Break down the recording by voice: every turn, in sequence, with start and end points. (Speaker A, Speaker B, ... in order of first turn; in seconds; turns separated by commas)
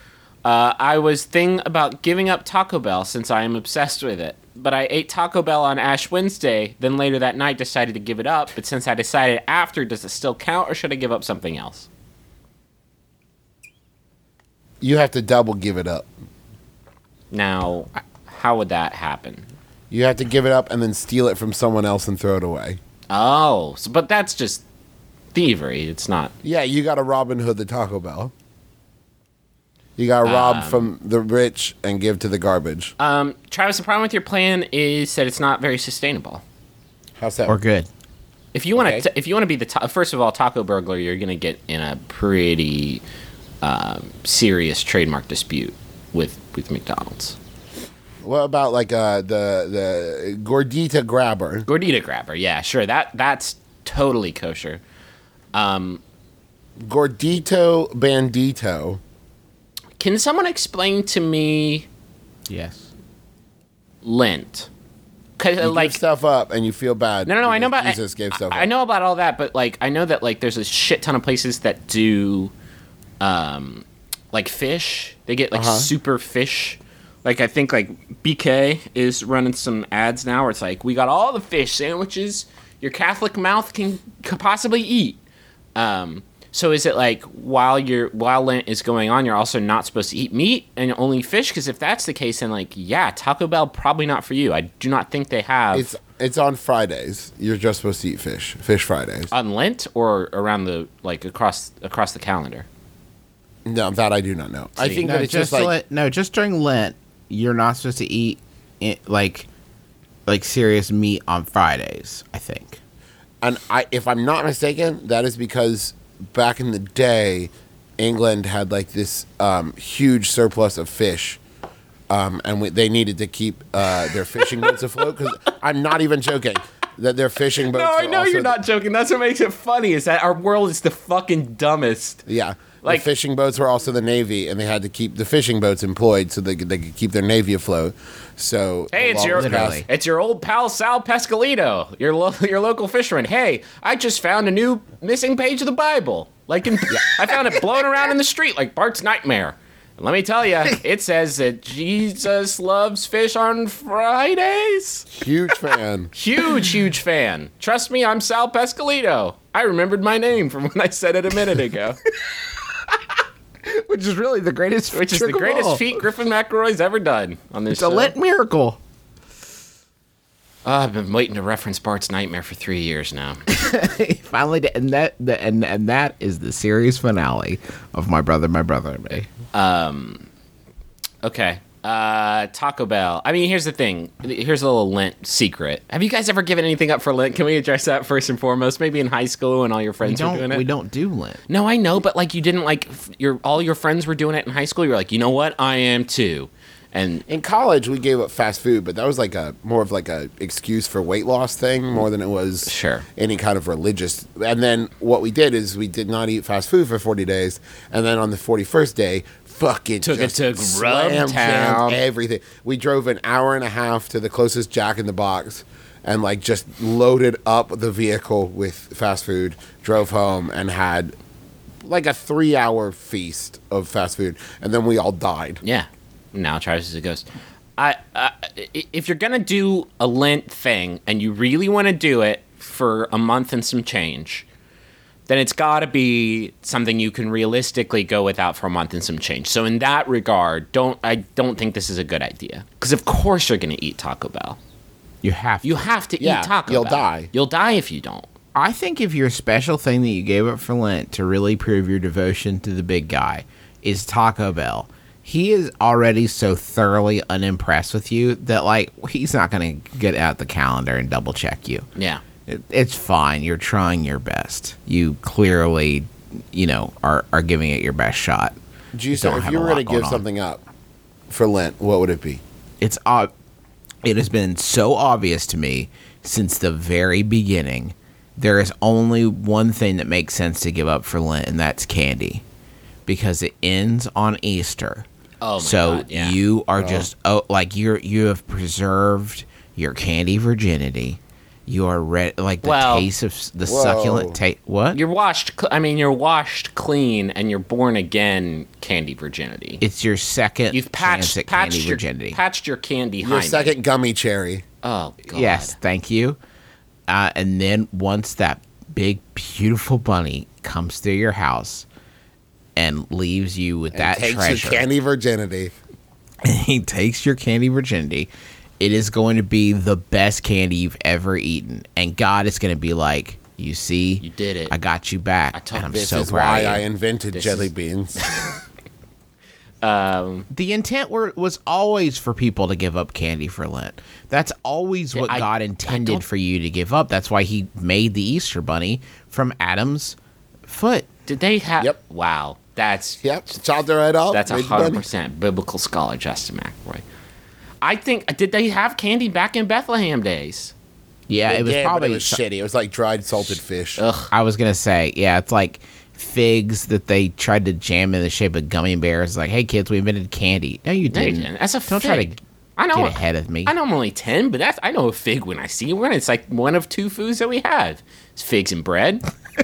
Speaker A: 0.4-11.9, Speaker B: 14.8-16.1, Speaker A: 17.3-19.5, Speaker B: 19.9-22.8, Speaker A: 23.1-24.6, Speaker A: 25.3-26.3, Speaker B: 26.4-28.3, Speaker B: 30.0-33.0, Speaker A: 30.2-30.9, Speaker A: 33.0-36.4, Speaker B: 37.2-37.6, Speaker C: 37.5-37.9, Speaker A: 38.5-43.0, Speaker B: 38.8-39.0, Speaker A: 43.6-47.4, Speaker B: 48.2-51.7, Speaker A: 51.7-54.8, Speaker A: 55.5-56.0, Speaker B: 56.9-59.0, Speaker A: 60.0-61.9, Speaker C: 62.5-62.9, Speaker A: 64.0-64.7, Speaker A: 65.4-66.0, Speaker B: 65.6-68.7, Speaker A: 67.3-72.5, Speaker A: 73.2-85.2, Speaker B: 75.5-75.9, Speaker A: 85.8-95.9, Speaker B: 95.7-99.3, Speaker A: 99.3-102.7, Speaker B: 103.7-105.7, Speaker A: 104.8-105.1, Speaker C: 105.0-109.5, Speaker C: 110.3-112.8, Speaker B: 113.4-121.4, Speaker B: 122.1-128.6, Speaker A: 127.7-132.2, Speaker B: 132.3-139.9, Speaker A: 138.9-155.1, Speaker C: 139.3-139.9, Speaker B: 155.1-156.1, Speaker A: 156.1-162.0, Speaker C: 163.7-166.0, Speaker A: 164.9-168.1, Speaker C: 167.7-168.8, Speaker A: 170.7-173.4, Speaker C: 173.5-179.3, Speaker A: 179.5-180.3, Speaker A: 181.2-190.7, Speaker C: 190.0-191.4, Speaker A: 191.5-197.2, Speaker B: 197.3-221.2, Speaker A: 202.7-203.1, Speaker A: 210.0-212.0, Speaker B: 221.8-225.6, Speaker A: 225.6-227.3, Speaker A: 227.8-234.5, Speaker A: 235.3-244.6, Speaker C: 245.2-245.9, Speaker A: 245.6-248.3, Speaker B: 246.2-247.3, Speaker C: 248.5-261.9, Speaker A: 262.0-262.2, Speaker C: 262.5-268.6, Speaker B: 268.9-270.6, Speaker C: 269.1-270.2, Speaker B: 271.3-272.4, Speaker C: 272.8-273.3, Speaker C: 274.0-282.4, Speaker C: 283.1-285.1, Speaker A: 285.4-286.4, Speaker C: 285.6-295.0, Speaker B: 286.8-287.1, Speaker A: 292.6-293.1, Speaker B: 293.6-294.4, Speaker A: 294.9-299.8, Speaker C: 299.8-302.4, Speaker A: 300.7-303.7, Speaker B: 303.2-304.6, Speaker A: 304.8-305.8, Speaker C: 305.3-306.4, Speaker C: 307.1-311.9, Speaker C: 312.8-314.9, Speaker B: 313.9-315.7, Speaker C: 316.4-318.3, Speaker C: 318.8-326.9, Speaker A: 324.2-324.7, Speaker A: 325.5-326.2, Speaker B: 325.9-328.3, Speaker A: 327.3-327.7, Speaker A: 328.2-328.5, Speaker A: 329.8-330.5, Speaker C: 330.5-341.1, Speaker A: 335.1-336.2, Speaker A: 341.3-343.2, Speaker B: 343.2-345.0, Speaker A: 344.3-347.1, Speaker A: 347.8-350.7, Speaker C: 351.3-352.4, Speaker B: 351.4-354.0, Speaker A: 354.0-354.3, Speaker C: 354.3-362.4, Speaker A: 361.1-369.2, Speaker C: 362.9-363.7